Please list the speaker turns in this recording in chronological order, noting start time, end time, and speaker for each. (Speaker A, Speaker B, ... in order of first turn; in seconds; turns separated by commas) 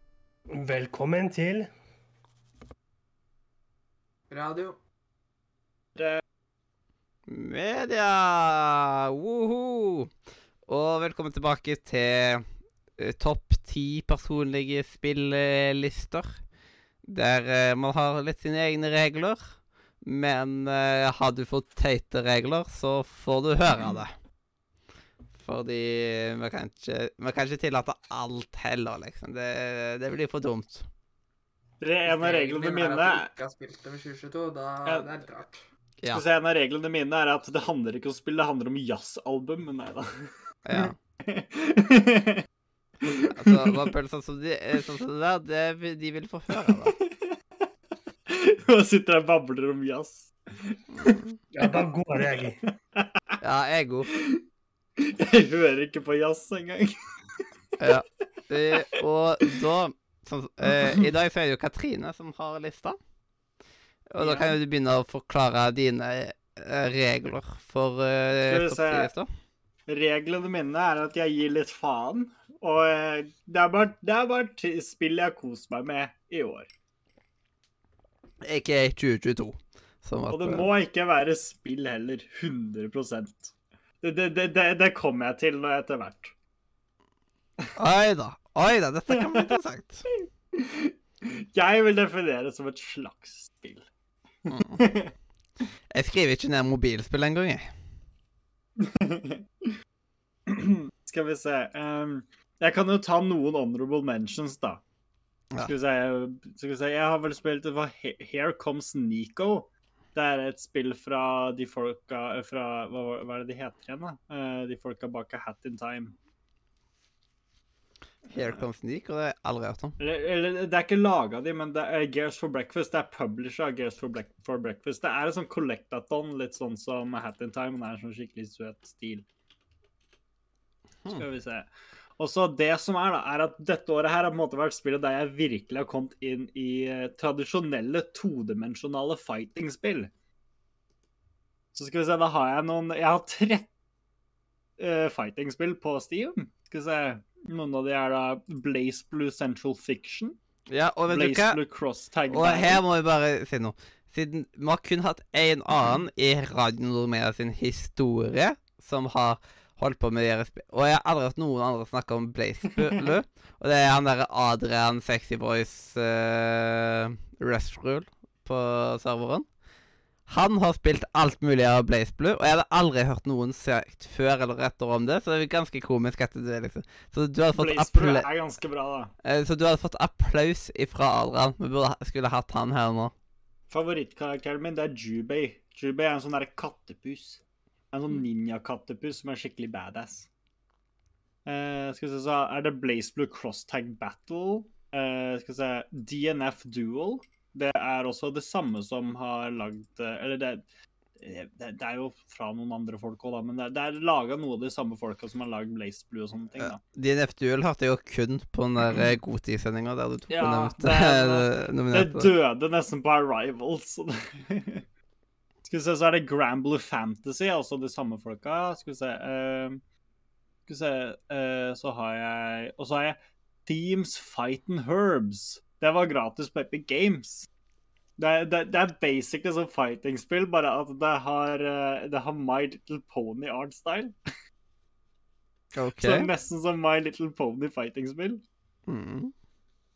Speaker A: 0.5-1.7, Speaker B: 4.3-4.8, Speaker C: 6.0-6.2, Speaker D: 7.3-10.1, Speaker D: 10.6-12.4, Speaker D: 13.0-16.4, Speaker D: 17.0-24.1, Speaker D: 25.4-30.9, Speaker C: 31.8-33.3, Speaker B: 32.0-35.6, Speaker C: 36.1-42.4, Speaker D: 40.6-41.0, Speaker C: 43.0-43.9, Speaker D: 43.3-47.0, Speaker C: 46.6-47.3, Speaker C: 48.3-53.1, Speaker D: 51.0-51.4, Speaker A: 51.5-52.6, Speaker D: 53.4-54.1, Speaker C: 54.1-54.4, Speaker C: 55.0-56.9, Speaker D: 57.8-63.0, Speaker C: 60.6-61.0, Speaker D: 64.1-69.3, Speaker C: 64.2-64.5, Speaker C: 68.5-69.1, Speaker C: 69.9-76.7, Speaker D: 78.4-80.7, Speaker C: 80.3-86.3, Speaker D: 87.8-90.1, Speaker C: 89.1-89.5, Speaker C: 90.5-93.9, Speaker C: 94.4-95.1, Speaker D: 94.5-94.8, Speaker D: 95.9-97.7, Speaker C: 98.8-99.7, Speaker C: 100.5-104.8, Speaker C: 105.6-116.1, Speaker D: 118.3-120.0, Speaker C: 120.0-129.2, Speaker C: 131.1-140.1, Speaker C: 141.7-143.7, Speaker C: 144.8-150.3, Speaker D: 150.7-151.6, Speaker C: 151.1-152.8, Speaker D: 152.3-169.5, Speaker D: 170.3-178.3, Speaker C: 177.5-179.1, Speaker D: 179.2-183.1, Speaker C: 183.7-187.4, Speaker C: 187.9-190.3, Speaker C: 191.4-200.6, Speaker C: 201.2-206.8, Speaker D: 206.6-212.3, Speaker C: 210.3-214.8, Speaker C: 215.6-219.8, Speaker C: 220.7-227.5, Speaker C: 228.2-234.1, Speaker D: 235.7-236.3, Speaker C: 236.0-238.4, Speaker D: 238.9-239.3